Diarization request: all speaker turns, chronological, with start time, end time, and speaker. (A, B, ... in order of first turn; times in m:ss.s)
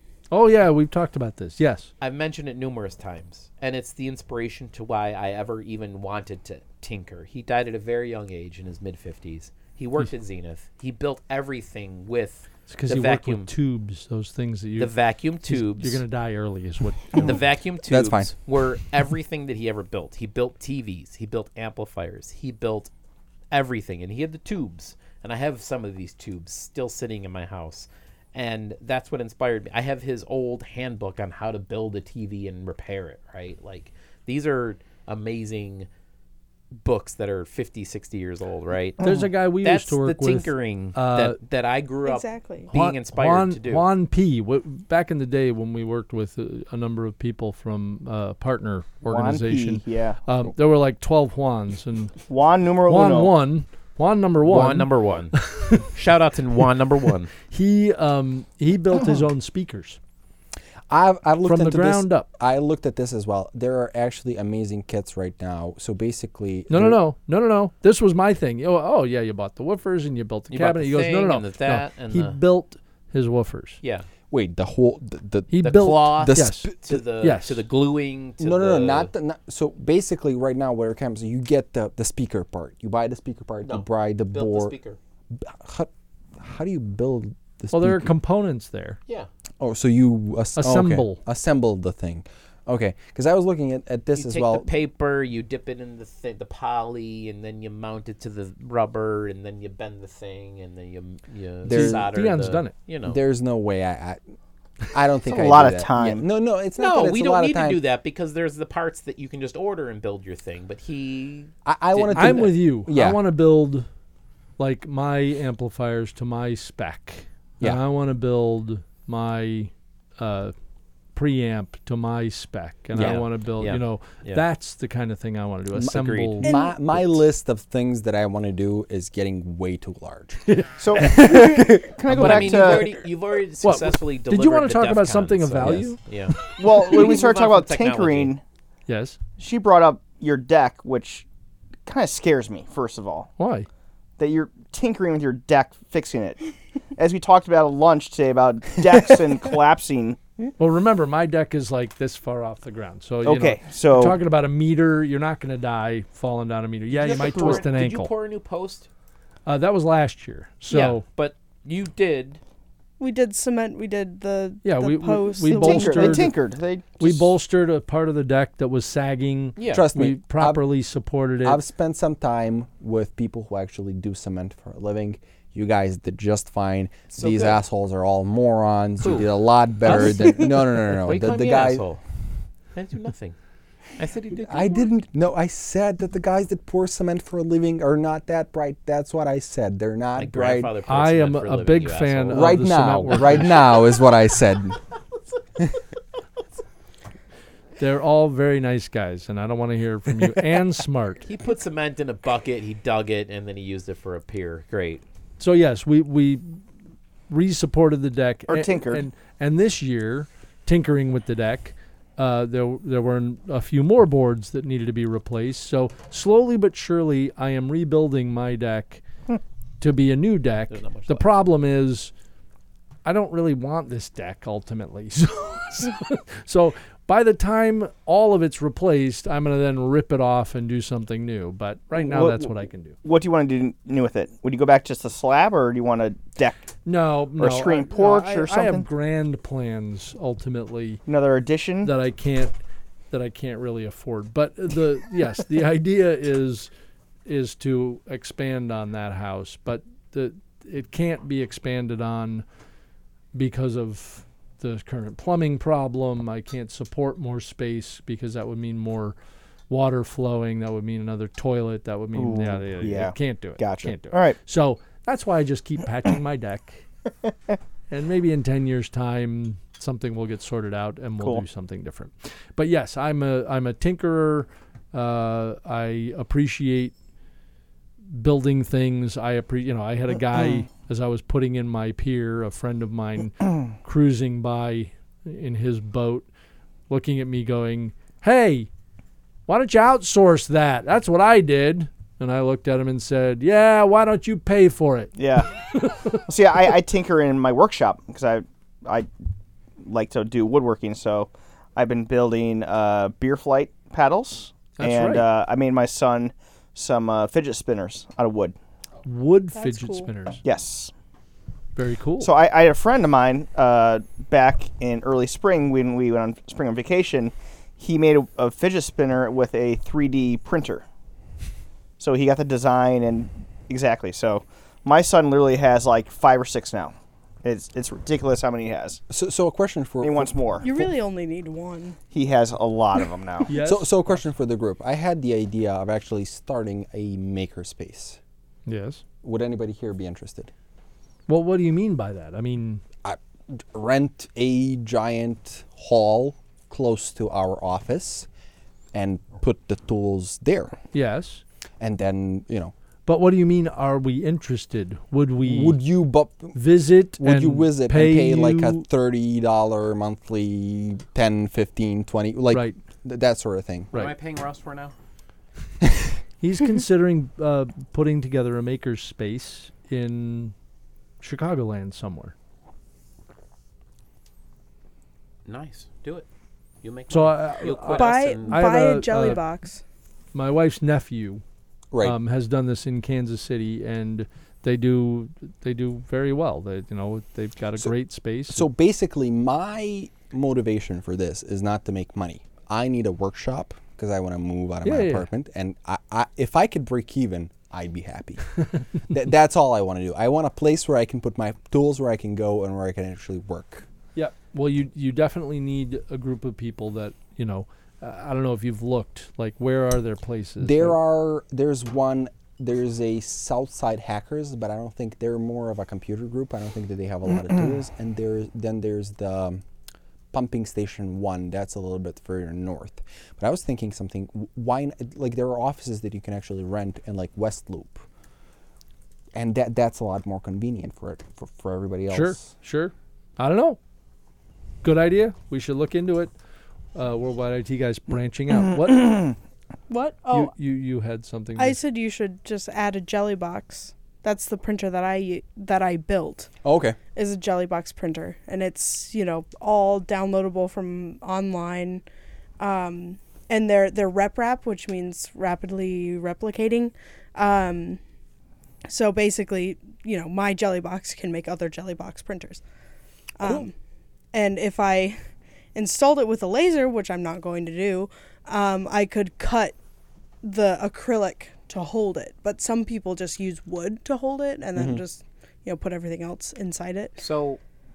0:00.3-0:01.9 A
0:02.0-0:13.5 B
0:12.7-0:14.9 A
0:14.8-0:16.0 B
0:15.4-0:17.4 A
0:17.1-0:22.9 B
0:17.9-0:18.3 C
0:23.5-0:35.9 B
0:36.8-0:43.9 B
0:39.0-0:41.4 A
0:42.0-0:42.7 D
0:42.7-0:52.2 A
0:49.0-0:50.2 E
0:52.3-0:53.3 E
0:52.9-0:55.9 A
0:54.4-0:57.3 B
0:57.4-1:00.0 A
1:00.9-1:07.0 C
1:01.4-1:02.3 A
1:06.7-1:13.8 A
1:10.5-1:12.4 B
1:13.8-1:14.1 B
1:14.3-1:16.7 C
1:15.5-1:17.6 A
1:15.6-1:19.1 B
1:18.4-1:24.7 C
1:23.6-1:25.0 B
1:25.3-1:28.1 C
1:27.7-1:29.0 A
1:29.6-1:34.7 C
1:30.6-1:31.2 A
1:34.1-1:43.2 B
1:41.6-1:42.7 A
1:41.7-1:42.1 C
1:43.0-1:44.2 C
1:44.9-1:47.8 C
1:45.3-1:46.2 E
1:46.8-1:52.5 B
1:51.6-1:53.2 C
1:52.1-1:53.8 A
1:54.6-2:00.5 A
2:01.1-2:06.5 A
2:02.9-2:04.4 B
2:05.7-2:10.4 C
2:05.9-2:06.4 B
2:06.4-2:06.8 D
2:10.4-2:11.6 A
2:10.8-2:12.8 E
2:11.0-2:12.0 C
2:12.1-2:18.3 B
2:12.2-2:12.6 A
2:13.6-2:16.6 A
2:16.6-2:18.4 E
2:18.9-2:19.2 A
2:19.4-2:21.2 E
2:21.8-2:23.3 E
2:23.4-2:23.7 A
2:24.2-2:26.4 E
2:27.0-2:30.2 E
2:30.6-2:38.1 A
2:33.2-2:34.2 E
2:36.9-2:38.9 B
2:37.1-2:37.6 E
2:39.4-2:41.0 A
2:40.7-2:42.4 B
2:43.0-2:46.2 D
2:44.6-2:46.4 A
2:45.5-2:47.3 E
2:47.0-2:51.6 A
2:49.6-2:49.9 B
2:49.7-2:50.7 C
2:51.4-3:01.8 C
2:57.1-2:57.6 B
2:59.0-2:59.3 B
2:59.8-3:02.0 B
3:02.7-3:03.4 B
3:04.0-3:04.9 B
3:04.3-3:10.7 C
3:10.2-3:12.6 B
3:10.9-3:13.8 A
3:12.3-3:14.8 C
3:13.1-3:13.8 B
3:17.8-3:21.2 A
3:21.2-3:25.0 B
3:25.4-3:26.6 A
3:27.3-3:39.0 A
3:28.5-3:29.0 E
3:39.8-3:42.1 A
3:40.7-3:41.3 B
3:43.0-3:53.0 A
3:52.0-3:56.7 E
3:56.8-4:01.0 A
3:57.4-3:58.9 E
4:01.0-4:01.9 E
4:01.8-4:02.5 A
4:03.1-4:06.7 A
4:07.2-4:12.4 A
4:13.3-4:19.2 A
4:19.7-4:26.8 A
4:22.2-4:24.4 E
4:27.9-4:36.9 A
4:31.2-4:31.4 E
4:38.1-4:46.3 A
4:46.9-4:48.7 A
4:49.5-4:56.2 A
4:55.2-4:55.5 E
4:56.3-4:59.1 E
4:59.8-5:08.5 E
5:04.7-5:05.3 A
5:09.0-5:10.4 A
5:09.5-5:10.1 D
5:10.4-5:10.9 E
5:11.8-5:12.3 A
5:12.2-5:20.8 E
5:22.0-5:29.0 E
5:29.1-5:30.9 C
5:30.0-5:30.6 E
5:30.6-5:32.0 D
5:32.1-5:33.5 E
5:33.5-5:34.2 A
5:33.5-5:38.2 C
5:38.6-5:39.0 A
5:39.2-5:40.5 C
5:41.3-5:42.8 A
5:43.0-5:48.3 C
5:48.9-5:50.8 C
5:50.9-5:51.4 A
5:51.8-5:52.7 C
5:53.0-5:55.8 A
5:55.4-5:56.6 C
5:56.5-5:58.8 A
5:57.2-6:03.9 C
6:02.5-6:02.8 A
6:03.9-6:04.9 B
6:05.8-6:06.1 C
6:06.4-6:10.5 A
6:11.2-6:12.3 A
6:15.4-6:16.3 B
6:16.8-6:18.7 B
6:17.1-6:19.4 A
6:17.9-6:19.8 D
6:20.3-6:21.4 A
6:22.0-6:28.6 A
6:28.5-6:38.6 C
6:34.8-6:35.2 A
6:39.1-6:43.9 C
6:44.1-6:51.0 A
6:50.6-6:59.6 C
7:00.3-7:08.0 C
7:09.3-7:12.5 C
7:12.1-7:13.8 A
7:14.8-7:16.3 A
7:16.9-7:19.3 A
7:19.9-7:20.5 D
7:20.3-7:21.8 A
7:21.6-7:26.5 D
7:26.6-7:27.0 C
7:27.1-7:32.0 D
7:32.6-7:38.0 D
7:38.9-7:42.6 D
7:43.4-7:43.7 D
7:44.3-7:45.2 D
7:45.7-7:49.8 D
7:50.4-7:57.2 D
7:54.8-7:55.0 C
7:57.2-7:57.6 B